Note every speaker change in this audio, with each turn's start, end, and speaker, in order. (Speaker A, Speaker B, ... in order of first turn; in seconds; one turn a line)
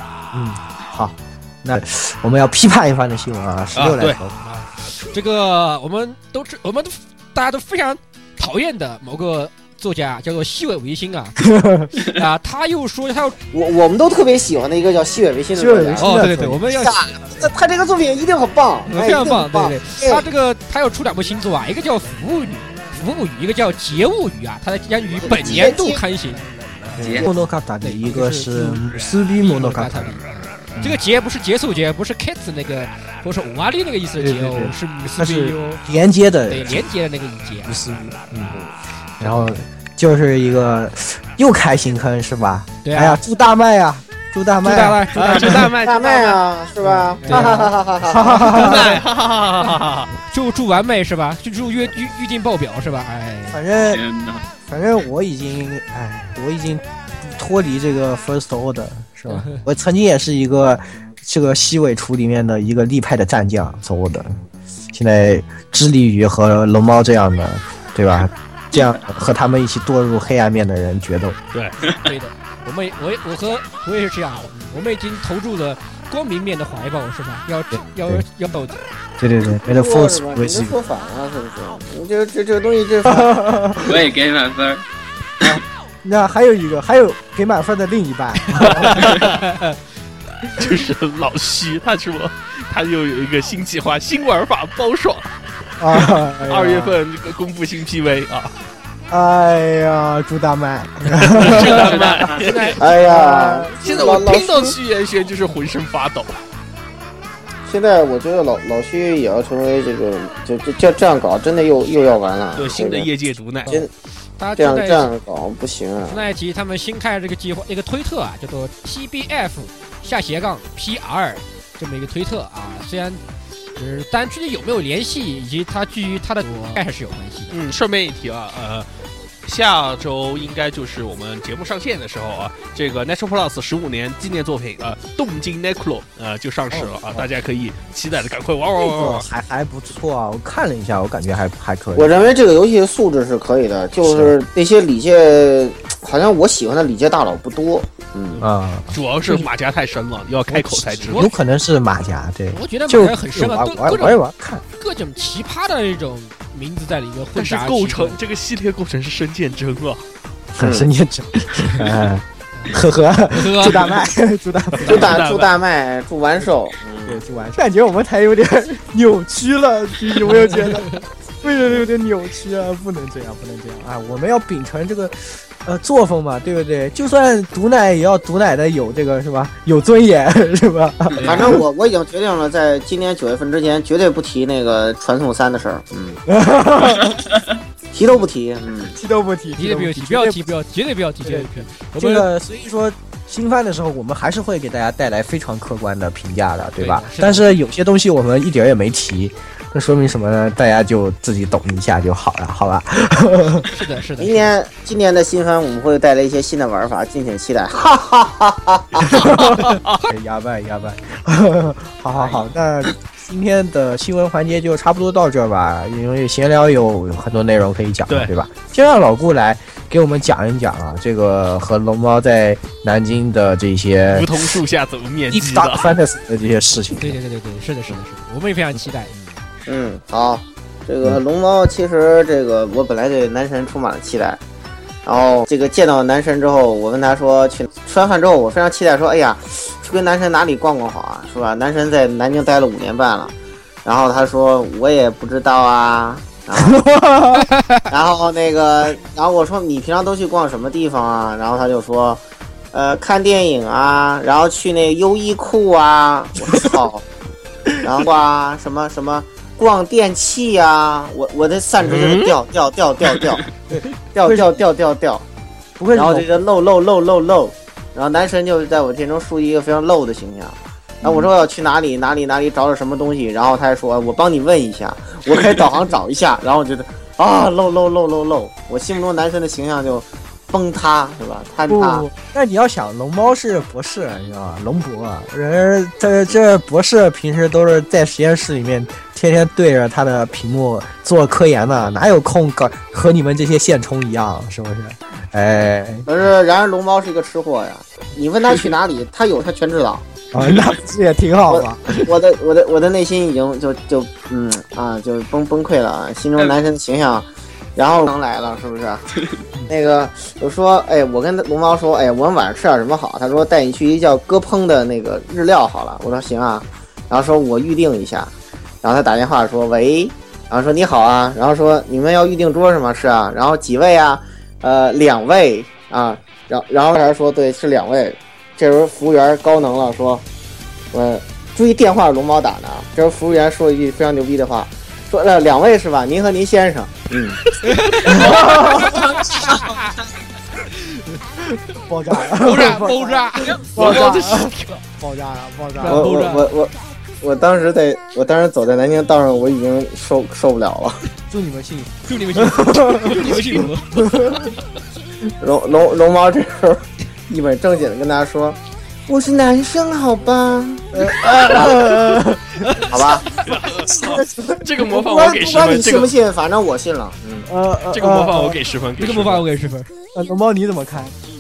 Speaker A: 0.3-4.4
Speaker B: 3.8-4.2
Speaker C: 4.4-13.4
Speaker A: 11.4-11.9
Speaker D: 13.5-16.2
Speaker A: 15.5-16.6
Speaker C: 16.0-17.4
Speaker D: 16.7-20.3
Speaker C: 18.9-26.4
Speaker D: 25.2-26.0
Speaker E: 27.0-27.3
Speaker A: 27.0-30.2
Speaker C: 27.8-28.8
Speaker C: 29.4-35.8
Speaker A: 30.7-31.0
Speaker A: 34.2-36.9
Speaker C: 36.5-37.8
Speaker A: 37.7-38.6
Speaker A: 39.2-45.7
Speaker C: 42.8-43.2
Speaker C: 44.6-45.7
Speaker B: 45.1-46.4
Speaker D: 45.8-48.5
Speaker A: 47.0-49.0
Speaker C: 47.2-47.7
Speaker B: 48.5-50.1
Speaker C: 50.2-53.6
Speaker A: 53.5-54.0
Speaker E: 53.8-54.4
Speaker A: 54.7-64.4
Speaker C: 59.3-59.6
Speaker A: 64.9-71.4
Speaker C: 71.9-78.8
Speaker A: 77.7-78.2
Speaker A: 79.2-80.8
Speaker D: 79.6-83.4
Speaker A: 83.1-83.9
Speaker E: 83.8-84.8
Speaker A: 85.4-89.2
Speaker B: 88.8-89.3
Speaker C: 89.2-89.8
Speaker B: 90.5-95.3
Speaker A: 95.8-97.0
Speaker B: 95.9-98.5
Speaker A: 99.1-101.9
Speaker B: 101.2-102.8
Speaker C: 102.0-104.0
Speaker D: 102.8-104.8
Speaker B: 103.8-106.4
Speaker D: 107.7-113.1
Speaker B: 112.6-113.8
Speaker C: 114.4-115.1
Speaker D: 114.6-116.2
Speaker C: 116.1-123.2
Speaker C: 123.8-127.6
Speaker B: 127.5-128.9
Speaker B: 129.4-139.3
Speaker A: 136.7-137.3
Speaker A: 138.8-142.3
Speaker D: 141.9-148.4
Speaker A: 144.0-144.3
Speaker B: 148.3-151.3
Speaker A: 148.4-149.5
Speaker A: 150.5-154.6
Speaker C: 151.1-151.3
Speaker C: 152.5-154.2
Speaker C: 154.8-158.2
Speaker B: 157.3-160.1
Speaker A: 160.5-165.1
Speaker D: 160.6-160.9
Speaker C: 163.3-163.9
Speaker B: 164.8-165.5
Speaker D: 164.8-167.2
Speaker A: 167.1-181.6
Speaker C: 170.5-170.9
Speaker D: 181.2-186.2
Speaker A: 186.3-187.2
Speaker D: 187.9-189.0
Speaker A: 188.9-190.5
Speaker C: 189.6-192.3
Speaker A: 191.2-203.7
Speaker C: 196.8-197.5
Speaker C: 203.7-204.5
Speaker D: 204.2-209.2
Speaker A: 209.1-224.6
Speaker B: 209.5-210.0
Speaker B: 224.1-225.9
Speaker A: 225.3-227.2
Speaker C: 227.0-229.4
Speaker D: 229.7-234.4
Speaker D: 235.1-246.8
Speaker A: 246.6-247.5
Speaker D: 247.9-252.2
Speaker D: 252.7-257.1
Speaker D: 257.8-263.4
Speaker B: 261.8-262.3
Speaker D: 264.1-265.2
Speaker A: 264.2-264.5
Speaker A: 265.8-266.3
Speaker D: 265.9-282.1
Speaker A: 271.0-271.3
Speaker A: 281.7-296.1
Speaker D: 296.1-300.1
Speaker A: 300.3-302.1
Speaker D: 301.5-309.1
Speaker D: 309.7-318.3
Speaker D: 318.8-330.2
Speaker D: 330.9-337.4
Speaker C: 337.6-339.9
Speaker A: 338.1-339.1
Speaker E: 338.2-339.4
Speaker A: 341.7-346.1
Speaker C: 342.3-344.8
Speaker B: 343.8-344.5
Speaker C: 345.8-346.5
Speaker D: 345.9-351.0
Speaker A: 351.3-354.5
Speaker C: 352.1-354.2
Speaker D: 355.4-361.9
Speaker A: 360.9-362.6
Speaker C: 362.6-362.9
Speaker D: 362.9-363.3
Speaker B: 363.4-366.1
Speaker A: 363.9-364.6
Speaker D: 364.8-367.5
Speaker A: 367.5-368.6
Speaker B: 367.9-369.4
Speaker C: 369.0-369.9
Speaker A: 370.1-371.1